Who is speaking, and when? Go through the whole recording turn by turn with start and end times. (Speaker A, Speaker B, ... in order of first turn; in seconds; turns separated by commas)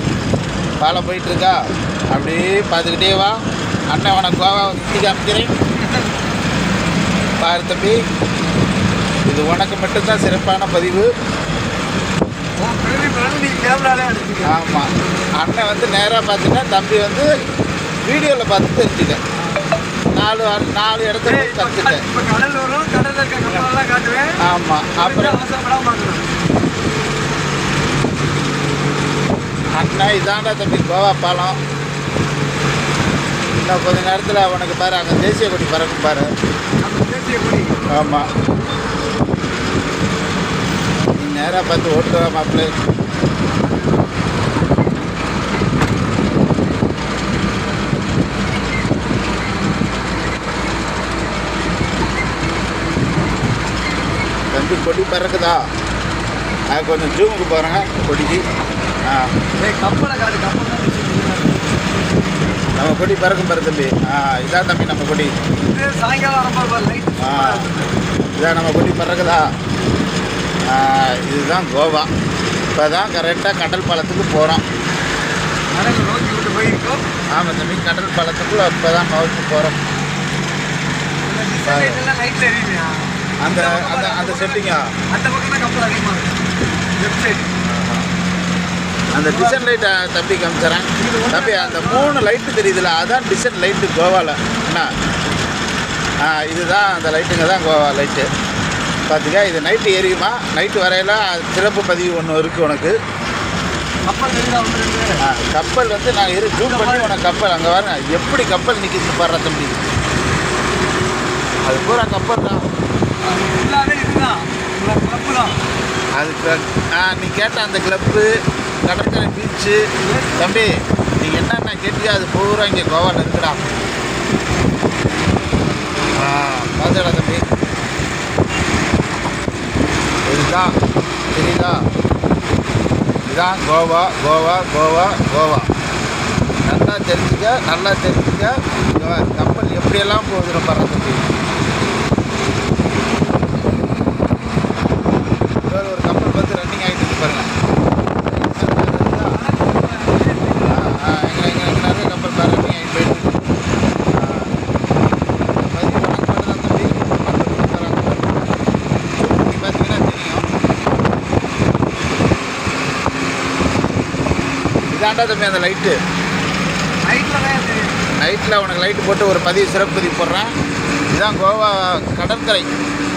Speaker A: 0.8-1.6, Speaker A: 2.1-3.4, Speaker A: 3.9-5.5, Speaker B: 5.7-6.1, Speaker A: 7.4-8.0, Speaker A: 9.3-11.1, Speaker B: 12.6-14.6, Speaker A: 14.4-17.3, Speaker A: 18.1-19.2, Speaker A: 20.1-22.0, Speaker B: 21.2-24.4, Speaker A: 24.4-25.4, Speaker B: 24.9-26.3, Speaker A: 29.8-31.6, Speaker A: 33.5-36.3, Speaker B: 36.8-37.9, Speaker A: 37.9-38.2, Speaker A: 41.1-42.7, Speaker A: 54.5-55.6, Speaker A: 56.7-58.4, Speaker A: 59.0-59.3, Speaker B: 59.6-61.8, Speaker A: 62.8-65.3, Speaker B: 65.6-68.0, Speaker A: 67.2-67.7, Speaker A: 68.3-69.5, Speaker A: 70.7-72.1, Speaker A: 72.7-74.6, Speaker B: 75.7-77.0, Speaker A: 77.3-79.8, Speaker B: 81.2-86.3, Speaker A: 81.7-82.0, Speaker A: 83.4-84.9, Speaker B: 87.0-87.5, Speaker A: 87.6-88.1, Speaker A: 89.1-94.9, Speaker B: 89.1-89.9, Speaker B: 91.0-92.2, Speaker A: 96.2-98.3, Speaker A: 99.1-103.0, Speaker B: 104.1-105.2, Speaker A: 105.2-109.8, Speaker B: 106.5-107.1, Speaker A: 111.7-112.7, Speaker B: 113.2-115.6, Speaker A: 116.2-118.3, Speaker A: 118.8-123.6, Speaker B: 120.0-120.5, Speaker A: 126.2-127.4, Speaker A: 130.3-130.8, Speaker A: 131.3-131.8, Speaker A: 133.3-135.7, Speaker A: 136.7-141.3, Speaker A: 145.7-147.5, Speaker A: 148.3-149.4, Speaker B: 148.6-151.0, Speaker A: 150.6-153.5, Speaker A: 154.1-154.6, Speaker A: 155.6-158.4, Speaker A: 159.2-160.4, Speaker A: 164.9-165.9, Speaker B: 167.0-167.9, Speaker A: 168.2-170.5, Speaker A: 171.1-172.7